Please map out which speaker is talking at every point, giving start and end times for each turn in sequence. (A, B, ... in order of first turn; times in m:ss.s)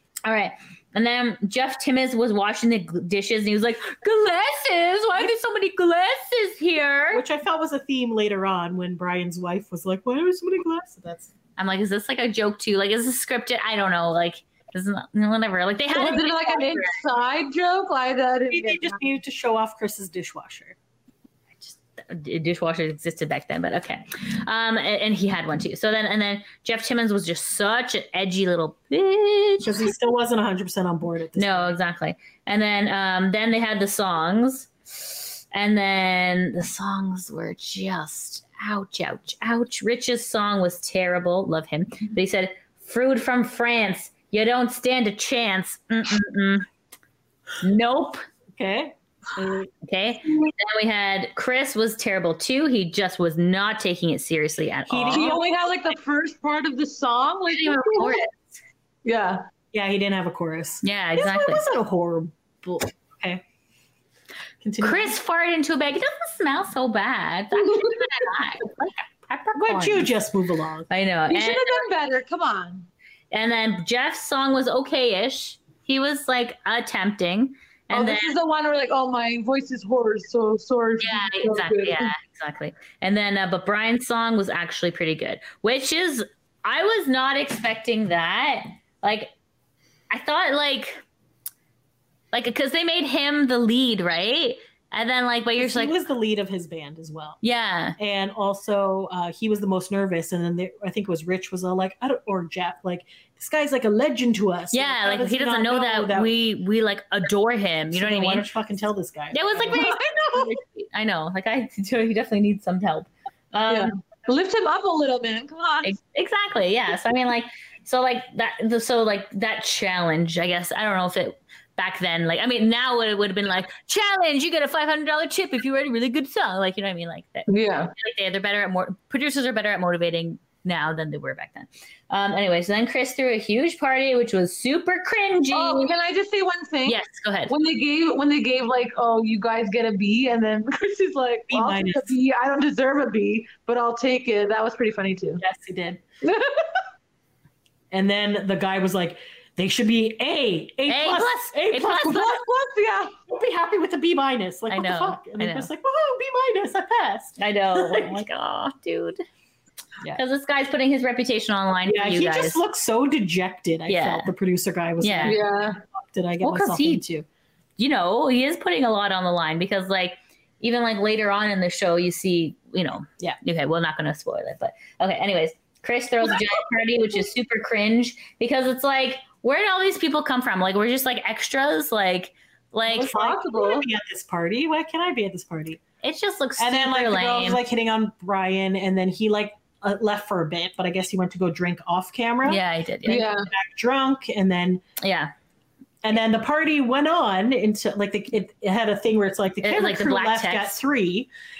0:00.2-0:07.2 A
0:07.1-0:11.3 B
0:11.6-0:17.0 A
0:15.9-0:19.0 C
0:18.5-0:20.8 B
0:21.6-0:29.9 A
0:29.6-0:31.7 B
0:31.4-0:46.6 A
0:47.6-0:48.2 A
0:48.6-0:49.7 B
0:49.8-0:55.4 A
0:54.9-0:55.4 B
0:55.1-0:58.2 C
0:57.5-0:58.3 A
0:59.0-0:59.4 C
0:59.7-1:03.4 B
1:00.8-1:01.6 A
1:04.6-1:05.2 B
1:04.8-1:10.1 A
1:09.5-1:10.9 B
1:10.9-1:11.8 A
1:11.3-1:12.9 C
1:13.3-1:18.4 A
1:17.9-1:22.1 C
1:21.0-1:29.3 A
1:30.1-1:31.0 A
1:32.3-1:35.9 A
1:35.6-1:37.4 B
1:37.4-1:38.0 A
1:38.0-1:46.3 B
1:44.7-1:48.4 A
1:47.9-1:50.0 B
1:49.3-1:53.9 A
1:49.7-1:50.5 C
1:53.7-1:55.9 C
1:55.8-2:15.9 A
2:07.5-2:07.9 C
2:15.5-2:25.4 C
2:16.8-2:17.5 A
2:21.5-2:22.1 B
2:25.4-2:26.0 B
2:26.2-2:26.8 C
2:27.9-2:32.3 B
2:30.9-2:32.3 A
2:32.0-2:33.2 C
2:33.3-2:38.2 B
2:34.7-2:35.7 A
2:37.4-2:39.2 A
2:40.1-2:42.6 A
2:41.9-2:47.2 B
2:43.9-2:44.3 A
2:45.0-2:45.4 A
2:45.2-2:45.8 C
2:46.4-2:47.0 A
2:47.8-3:03.2 A
3:02.9-3:05.8 B
3:03.1-3:03.8 C
3:06.0-3:07.6 A
3:06.6-3:12.6 B
3:12.4-3:13.3 A
3:13.0-3:13.5 C
3:13.3-3:14.8 B
3:15.0-3:15.3 A
3:16.0-3:21.3 B
3:19.6-3:20.8 A